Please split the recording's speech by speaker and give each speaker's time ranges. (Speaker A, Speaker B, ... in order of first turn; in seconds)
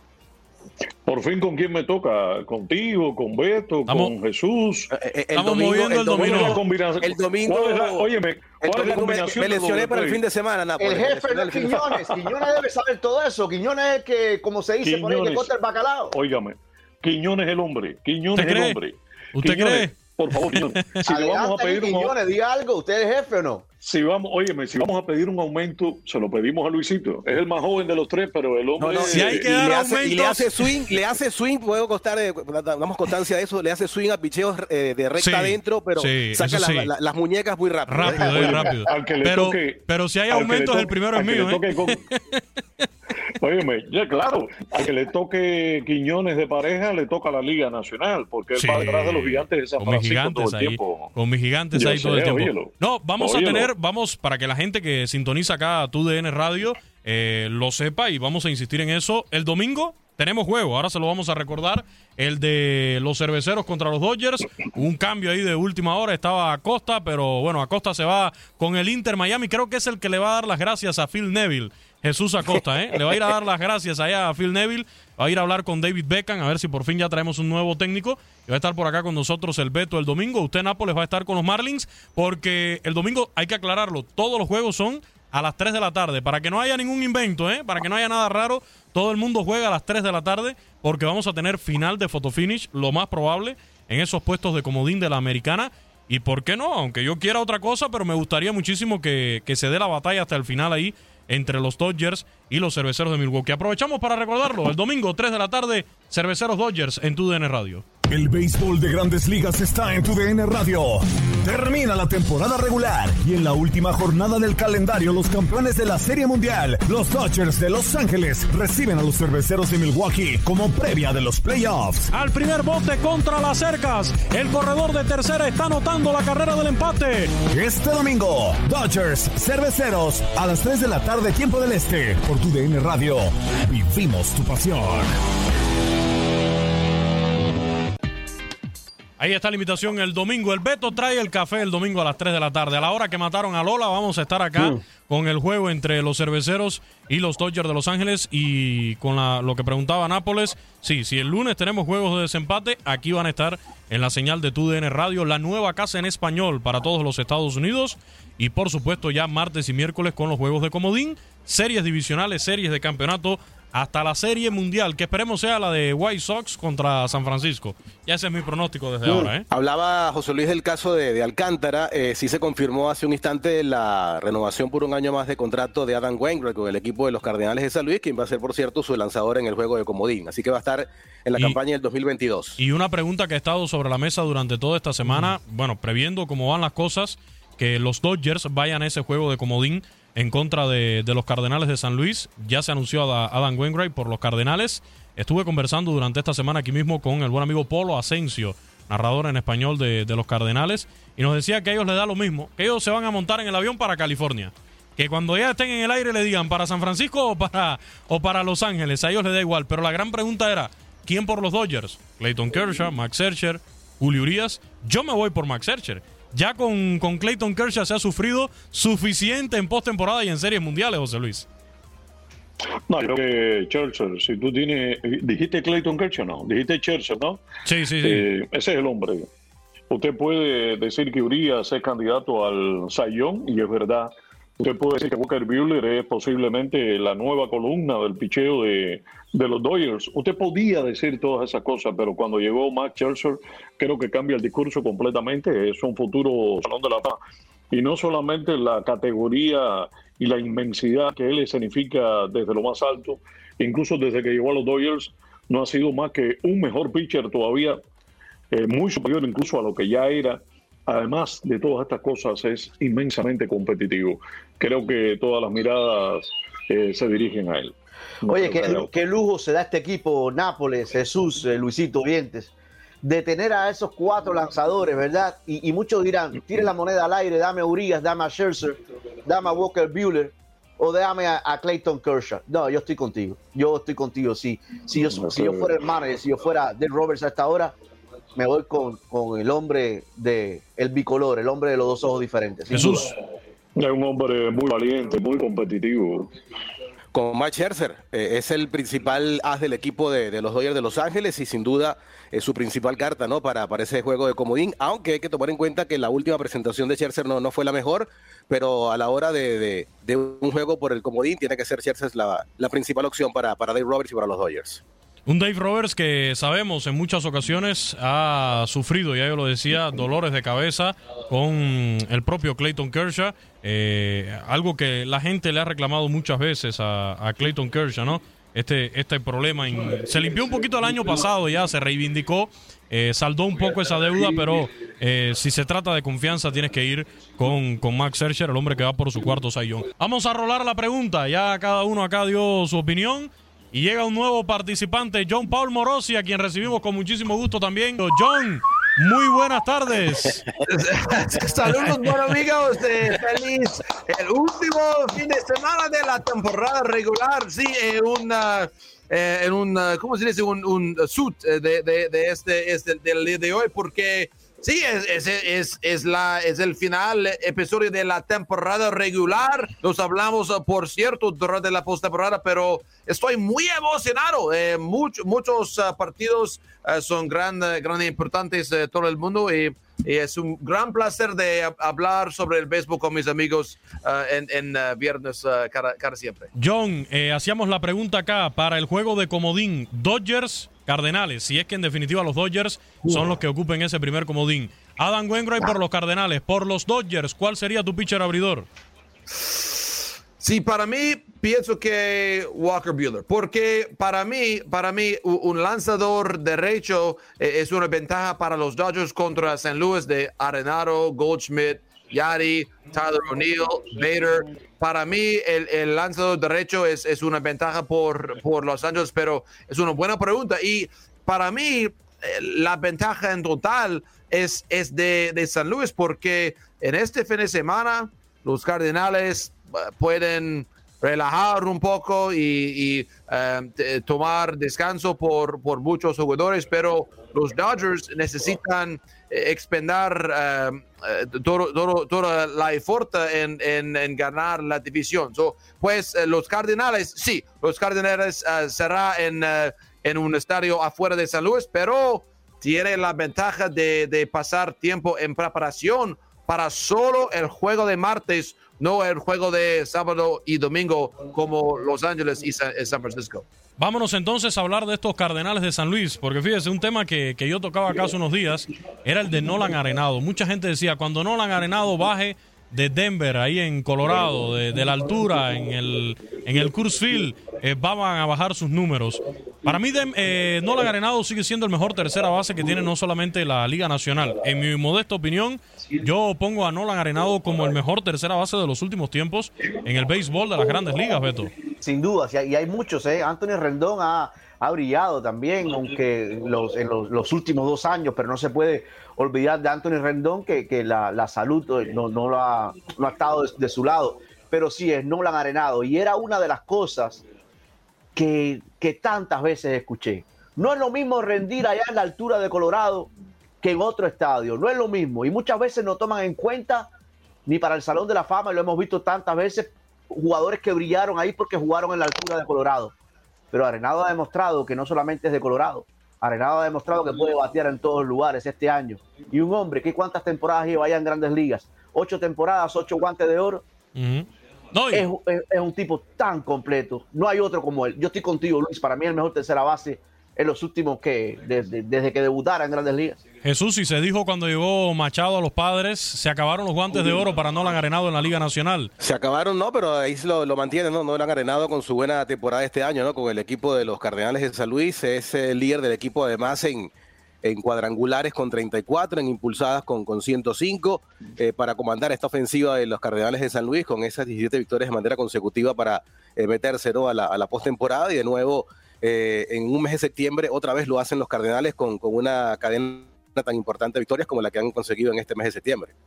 Speaker A: 1.1-4.9, 6.1-10.2, 14.8-15.5, 16.1-22.1, 23.8-29.4, 38.3-42.0, 43.4-51.1, 51.7-53.7, 222.9-227.4, 228.0-229.3, 229.9-247.2, 247.7-257.8, 258.5-268.9, 285.0-285.8, 293.8-296.3
Speaker B: 3.9-4.1, 5.3-6.6, 18.3-18.8, 19.3-19.9, 20.5-21.1, 29.1-30.7, 35.2-36.9, 37.9-42.8, 48.5-107.8, 122.1-127.3, 139.2-169.4, 182.6-221.5, 227.6-228.2, 292.7-293.1, 315.2-350.4, 386.5-398.7, 463.8-491.5, 533.9-535.0, 543.4-548.9
Speaker C: 4.9-8.1, 8.6-12.3, 28.8-38.9, 169.4-182.6, 297.1-314.8, 549.0-556.9, 557.4-575.9
Speaker D: 10.8-16.1, 21.1-23.6, 268.3-287.7, 288.4-293.1, 491.8-507.2, 508.1-513.1, 513.6-516.9, 517.5-522.9, 523.5-533.6, 534.9-543.2
Speaker E: 108.1-122.1, 127.5-135.1
Speaker F: 350.6-386.5, 400.4-463.4